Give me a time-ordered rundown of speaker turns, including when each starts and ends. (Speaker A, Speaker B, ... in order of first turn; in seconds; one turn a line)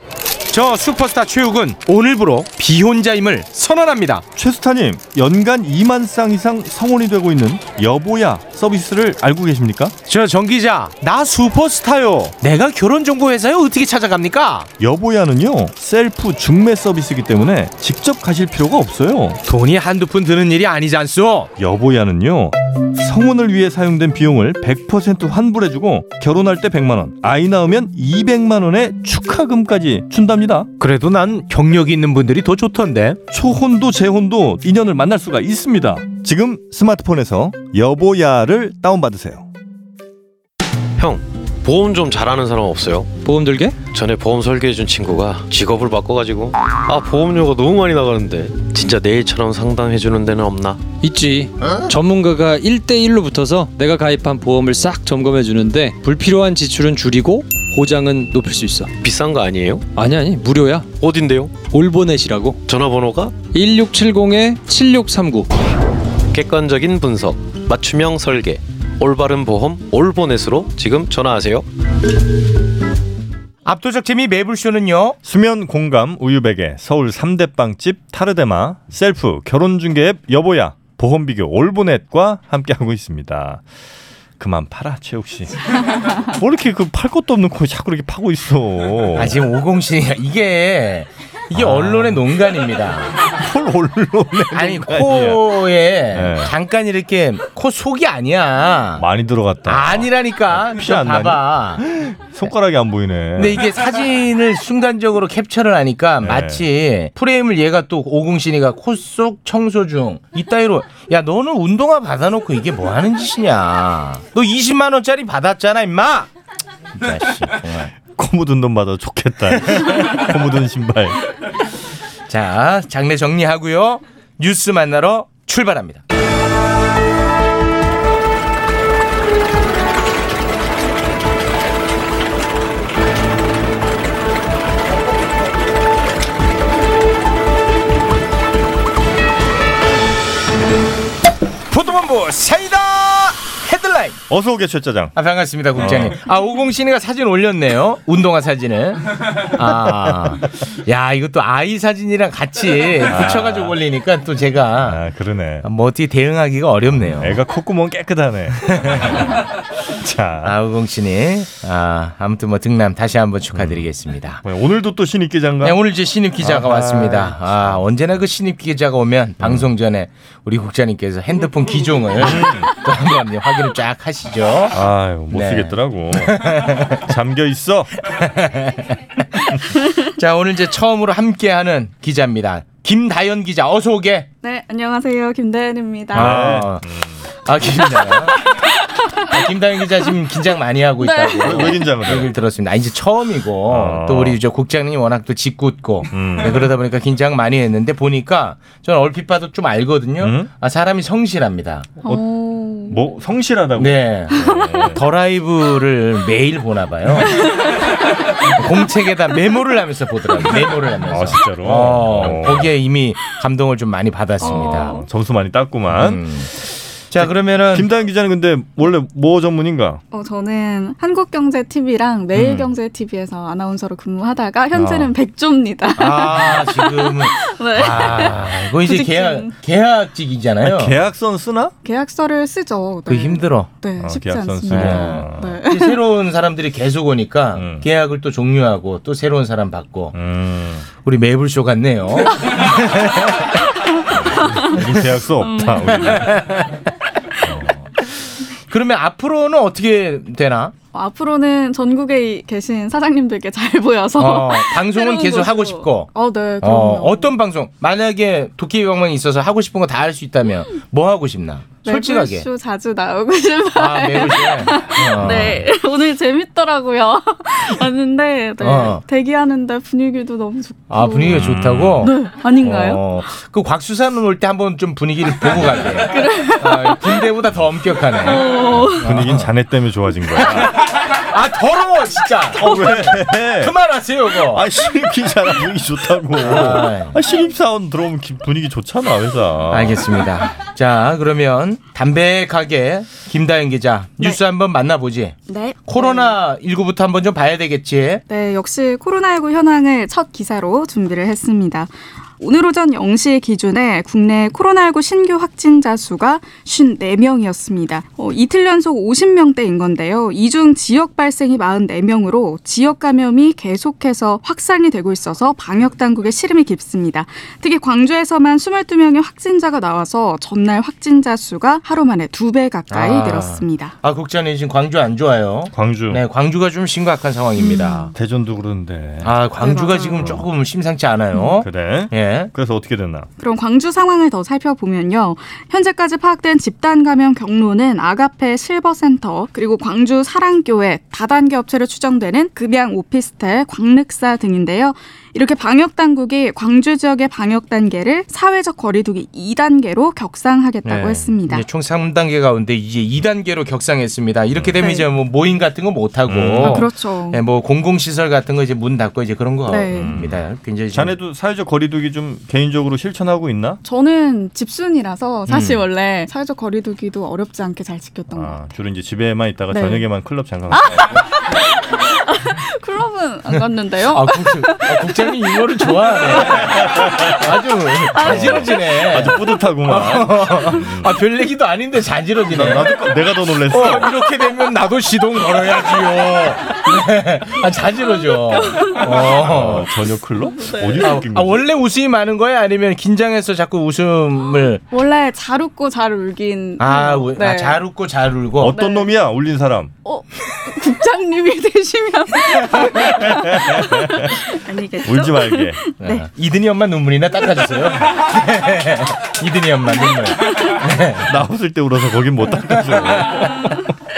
Speaker A: 0.5-4.2
Speaker B: 4.4-9.9
Speaker A: 10.1-14.7
Speaker B: 14.8-19.4
Speaker A: 19.5-21.5
Speaker B: 21.6-30.7
Speaker A: 30.8-33.2
Speaker B: 33.3-39.5
Speaker C: 41.0-43.2
Speaker D: 43.2-43.8
Speaker C: 43.9-50.8
Speaker D: 51.0-58.9
Speaker C: 59.0-60.0
Speaker D: 59.9-60.9
Speaker C: 61.0-61.7
Speaker D: 61.6-62.6
Speaker C: 62.7-63.5
Speaker D: 63.5-65.5
Speaker C: 66.3-71.7
Speaker A: 73.7-75.2
Speaker B: 75.2-83.6
Speaker B: 84.4-89.4
Speaker A: 89.2-93.2
Speaker B: 91.5-92.2
Speaker B: 93.3-96.5
Speaker A: 94.5-99.0
Speaker B: 99.0-103.7
Speaker A: 99.7-101.8
Speaker A: 103.4-116.3
Speaker B: 106.2-106.7
Speaker A: 116.9-117.9
Speaker B: 118.1-121.2
Speaker A: 122.3-126.0
Speaker A: 141.7-144.2
Speaker B: 144.3-145.2
Speaker A: 145.2-155.0
Speaker B: 145.8-146.2
Speaker B: 149.6-150.5
Speaker B: 153.1-153.8
Speaker B: 154.8-155.7
Speaker A: 155.6-157.4
Speaker B: 157.1-160.6
Speaker A: 158.7-159.4
Speaker A: 160.4-164.4
Speaker B: 163.6-163.9
Speaker B: 164.4-165.8
Speaker A: 165.6-174.8
Speaker B: 166.4-167.4
Speaker B: 169.4-169.7
Speaker B: 172.2-172.7
Speaker B: 174.7-177.9
Speaker A: 175.3-177.1
Speaker A: 178.0-184.3
Speaker E: 184.4-186.4
Speaker A: 186.1-186.9
Speaker B: 186.2-187.2
Speaker A: 187.4-188.4
Speaker A: 189.2-201.9
Speaker E: 191.0-191.8
Speaker B: 191.2-192.3
Speaker B: 193.7-194.4
Speaker B: 196.1-196.7
Speaker B: 200.2-200.5
Speaker E: 202.0-203.0
Speaker B: 202.9-205.0
Speaker A: 203.8-207.5
Speaker E: 204.3-204.9
Speaker E: 207.3-207.7
Speaker A: 208.5-215.0
Speaker B: 211.1-212.7
Speaker E: 214.4-215.1
Speaker B: 214.4-216.2
Speaker A: 215.9-216.5
Speaker A: 217.1-217.9
Speaker B: 217.2-220.0
Speaker E: 220.1-229.5
Speaker A: 222.3-222.7
Speaker A: 224.7-225.1
Speaker A: 226.0-231.0
Speaker B: 230.6-231.7
Speaker E: 231.8-236.0
Speaker A: 233.1-233.7
Speaker B: 234.0-235.6
Speaker A: 234.7-240.2
Speaker B: 237.6-237.8
Speaker B: 240.1-240.9
Speaker A: 241.0-243.5
Speaker B: 244.2-246.5
Speaker E: 244.4-244.7
Speaker E: 245.4-246.3
Speaker A: 246.2-246.7
Speaker B: 247.4-247.8
Speaker A: 248.7-250.7
Speaker E: 250.9-257.3
Speaker A: 254.2-262.5
Speaker E: 261.8-273.0
Speaker A: 263.8-265.6
Speaker B: 265.2-265.6
Speaker A: 268.6-269.0
Speaker A: 270.9-279.5
Speaker B: 271.2-272.1
Speaker E: 276.1-277.3
Speaker E: 278.2-279.0
Speaker B: 278.6-280.8
Speaker A: 280.4-284.6
Speaker B: 282.6-283.7
Speaker B: 284.5-290.1
Speaker A: 286.4-287.2
Speaker A: 289.7-295.4
Speaker E: 295.5-296.4
Speaker A: 295.9-298.2
Speaker E: 298.3-323.9
Speaker A: 322.9-328.1
Speaker B: 325.7-326.2
Speaker E: 327.6-328.1
Speaker B: 328.1-329.3
Speaker A: 329.2-332.5
Speaker E: 329.6-330.4
Speaker B: 331.6-333.3
Speaker E: 333.4-351.6
Speaker A: 350.8-361.1
Speaker B: 354.5-354.8
Speaker E: 354.8-355.1
Speaker B: 356.3-356.9
Speaker E: 356.6-357.4
Speaker E: 359.7-360.2
Speaker B: 359.9-363.8
Speaker E: 363.8-368.6
Speaker A: 365.5-365.8
Speaker B: 368.3-371.2
Speaker E: 369.7-370.1
Speaker E: 370.7-375.9
Speaker A: 374.1-382.9
Speaker B: 376.8-377.3
Speaker E: 378.1-378.9
Speaker B: 378.2-381.2
Speaker B: 382.5-384.1
Speaker A: 383.7-389.9
Speaker E: 388.2-389.0
Speaker B: 389.1-391.6
Speaker E: 390.5-391.1
Speaker A: 391.0-394.8
Speaker E: 394.9-397.8
Speaker A: 396.8-398.8
Speaker B: 398.6-399.9
Speaker E: 398.7-399.1
Speaker E: 400.0-406.2
Speaker B: 403.2-404.3
Speaker B: 405.0-405.8
Speaker A: 406.0-411.3
Speaker B: 411.2-413.8
Speaker A: 412.8-413.5